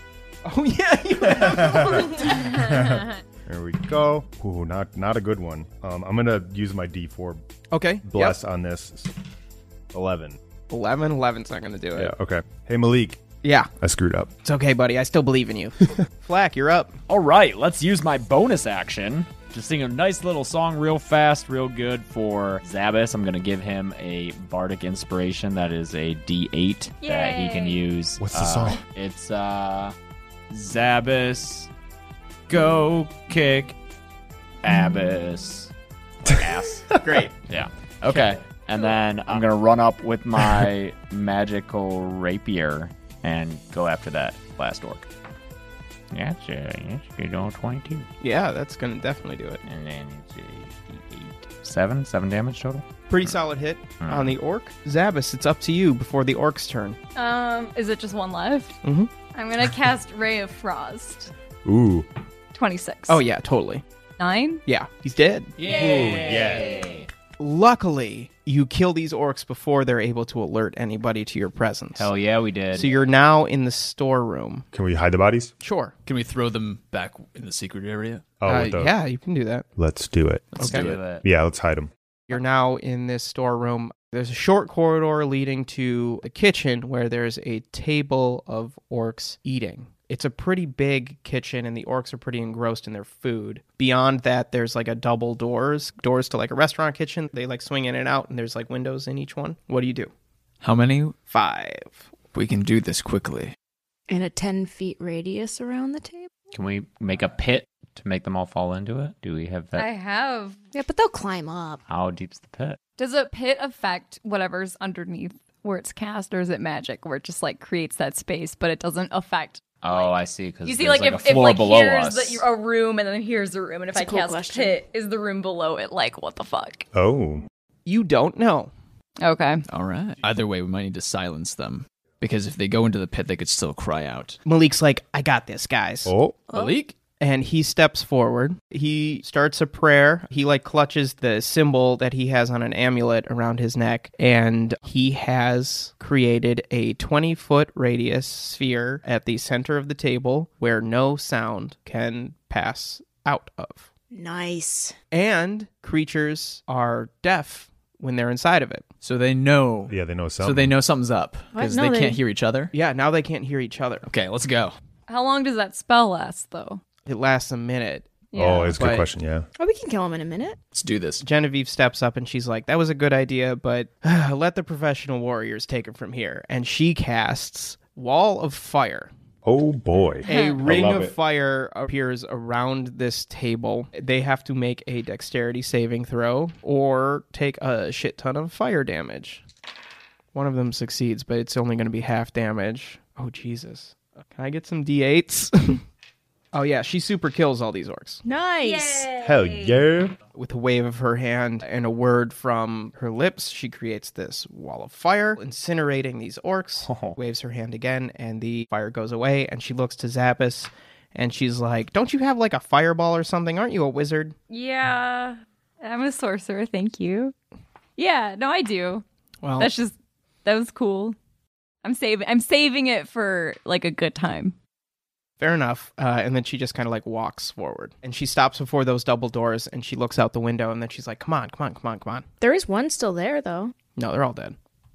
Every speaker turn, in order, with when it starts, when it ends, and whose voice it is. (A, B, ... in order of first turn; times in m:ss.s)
0:00.4-0:02.6 A
0:01.2-0:07.4 B
0:07.7-0:08.4 A
0:08.0-0:09.2 B
0:09.9-0:10.4 B
0:10.7-0:12.1 A
0:12.0-0:13.2 B
0:13.4-0:13.7 A
0:13.8-0:14.3 B
0:14.4-0:17.0 A
0:17.1-0:30.0 C
0:27.0-0:27.8 D
0:28.2-0:28.8 B
0:30.5-0:31.7 C
0:32.5-0:33.8 C
0:34.6-0:36.9 C
0:37.0-0:37.3 A
0:37.5-0:45.1 C
0:38.0-0:38.4 E
0:46.1-0:48.1 C
0:48.2-0:49.6 A
0:49.6-0:53.4 C
0:53.1-0:57.0 A
0:54.0-0:54.4 C
0:57.2-0:58.8 D
0:58.8-0:59.1 A
0:59.3-1:01.3 D
1:01.6-1:02.1 B
1:02.5-1:03.2 D
1:03.1-1:03.8 A
1:04.2-1:04.6 D
1:04.7-1:05.5 A
1:05.6-1:07.1 C
1:05.7-1:06.7 B
1:05.8-1:06.1 D
1:07.4-1:12.1 A
1:12.0-1:12.9 C
1:12.7-1:14.7 A
1:14.7-1:15.5 B
1:15.6-1:15.9 A
1:16.1-1:18.3 E
1:18.4-1:18.9 B
1:18.5-1:19.7 A
1:19.8-1:21.9 B
1:20.6-1:20.9 A
1:20.6-1:21.2 C
1:22.3-1:40.1 A
1:40.6-1:41.2 E
1:41.3-1:42.0 A
1:42.3-1:43.6 E
1:44.1-1:46.3 F
1:46.5-1:49.9 C
1:49.7-1:50.6 D
1:50.7-1:51.8 F
1:51.9-1:52.8 C
1:53.0-2:06.9 D
1:59.8-2:02.5 C
2:03.9-2:04.8 F
2:06.9-2:07.5 B
2:07.9-2:08.7 A
2:09.2-2:09.6 D
2:09.7-2:14.4 E
2:14.4-2:16.1 A
2:16.0-2:16.4 B
2:16.5-2:16.9 E
2:16.5-2:16.8 F
2:17.2-2:33.9 A
2:34.1-2:35.0 F
2:35.1-2:38.9 A
2:39.0-2:42.7 E
2:39.9-2:40.7 B
2:41.5-2:42.2 F
2:42.7-2:44.1 A
2:44.1-2:44.7 E
2:45.1-2:46.8 D
2:47.0-2:49.1 A
2:48.3-2:48.8 D
2:48.4-2:49.5 B
2:49.6-2:50.6 F
2:50.7-2:51.2 E
2:51.2-2:59.1 A
2:59.4-3:01.2 B
3:00.2-3:09.4 A
3:00.3-3:00.6 D
3:10.3-3:15.8 A
3:16.5-3:18.2 A
3:18.2-3:19.2 F
3:18.6-3:19.7 D
3:19.2-3:20.2 B
3:20.4-3:34.4 A
3:26.8-3:27.2 C
3:34.5-3:37.3 D
3:38.0-3:39.0 D
3:39.4-3:39.7 A
3:39.6-3:41.2 D
3:41.8-3:44.6 D
3:45.4-3:52.3 A
3:52.4-3:53.7 F
3:54.0-3:54.6 A